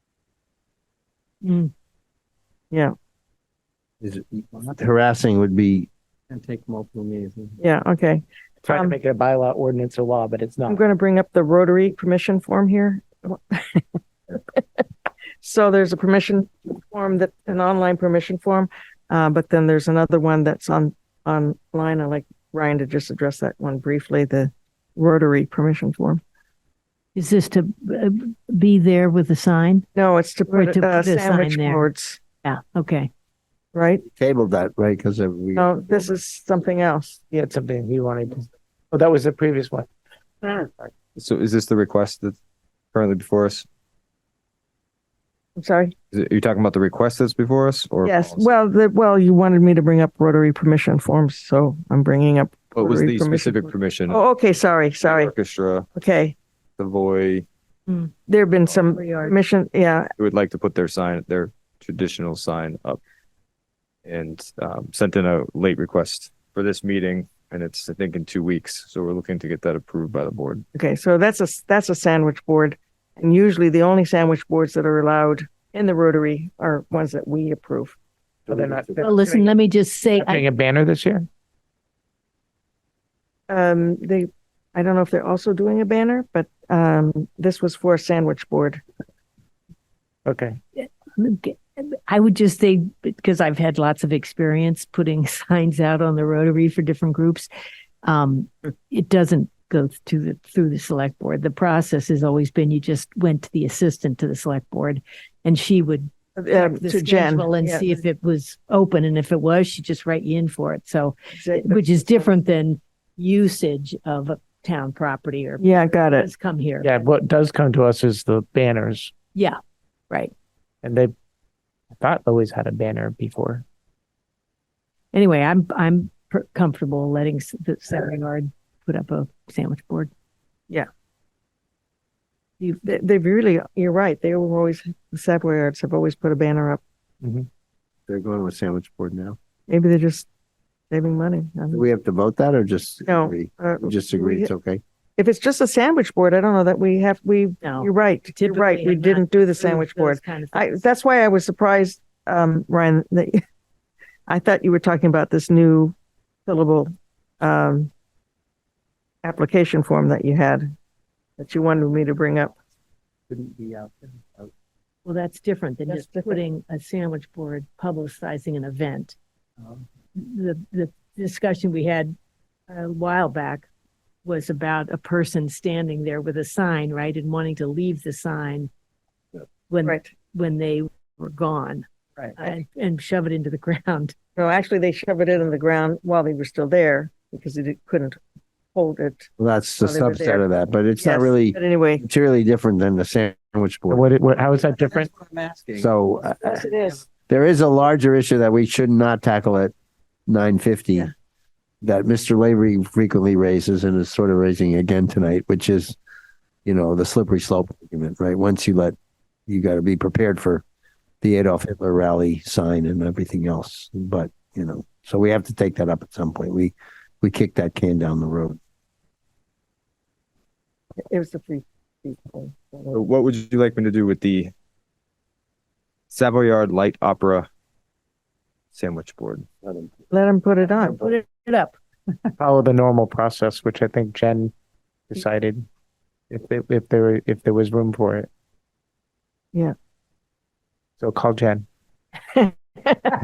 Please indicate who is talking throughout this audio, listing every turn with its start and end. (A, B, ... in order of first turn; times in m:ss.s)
0:01.4-0:01.7 A
0:04.0-0:05.9 B
0:06.3-0:07.6 C
0:07.6-0:09.0 D
0:08.6-0:10.8 E
0:10.7-0:13.8 D
0:15.4-0:26.2 D
0:27.1-0:29.8 A
0:29.9-0:32.2 D
0:30.5-0:31.9 A
0:32.4-0:33.1 A
0:33.7-0:34.0 D
0:34.1-0:36.0 B
0:35.6-0:37.2 D
0:37.3-0:39.9 E
0:40.4-0:40.9 E
0:41.2-0:42.4 F
0:42.9-0:43.6 F
0:45.6-0:45.9 D
0:46.1-0:48.5 F
0:48.0-0:55.3 D
0:52.7-0:54.2 F
0:55.0-0:55.9 F
0:55.9-0:56.3 D
0:56.8-0:57.4 F
0:58.3-1:00.1 D
0:58.8-0:59.3 A
1:00.2-1:03.0 F
1:04.0-1:10.6 F
1:10.7-1:17.9 D
1:18.5-1:19.5 E
1:19.0-1:20.4 A
1:20.2-1:21.3 E
1:23.5-1:28.8 D
1:30.2-1:30.6 E
1:30.8-1:37.5 A
1:38.0-1:57.0 A
1:46.4-1:47.8 D
1:51.3-1:52.3 D
1:55.6-1:56.3 D
1:56.8-1:59.1 E
2:00.8-2:01.1 E
2:01.9-2:03.6 E
2:05.1-2:10.1 A
2:12.8-2:16.8 D
2:18.1-2:19.4 B
2:19.7-2:20.3 D
2:20.9-2:21.8 D
2:21.7-2:24.8 B
2:23.0-2:24.5 D
2:25.2-2:33.4 D
2:27.6-2:30.7 A
2:34.3-2:35.9 D
2:36.4-2:36.9 D
2:37.4-2:37.9 D
2:39.2-2:40.7 D
2:41.4-2:42.5 D
2:43.3-2:44.5 C
2:45.0-2:49.2 A
2:45.9-2:46.4 D
2:50.2-2:52.1 A
2:52.7-2:53.6 A
2:54.2-2:58.7 A
2:59.7-3:01.8 A
3:02.2-3:02.5 D
3:02.4-3:04.1 A
3:04.4-3:08.2 D
3:08.7-3:09.3 D
3:09.4-3:14.0 B
3:09.8-3:10.4 D
3:11.0-3:12.0 D
3:13.9-3:15.1 E
3:15.4-3:15.7 C
3:15.7-3:16.6 B
3:16.4-3:17.0 D
3:17.2-3:19.7 B
3:20.3-3:21.1 B
3:21.8-3:26.0 B
3:26.6-3:29.0 B
3:29.5-3:30.6 B
3:31.2-3:38.6 B
3:41.1-3:43.0 D
3:42.9-3:44.5 F
3:46.1-3:47.5 F
3:48.7-3:49.5 F
3:50.1-3:51.0 D
3:50.7-3:51.8 A
3:52.4-3:54.5 E
3:55.1-3:55.6 E
3:56.3-3:58.3 E
4:01.0-4:01.6 E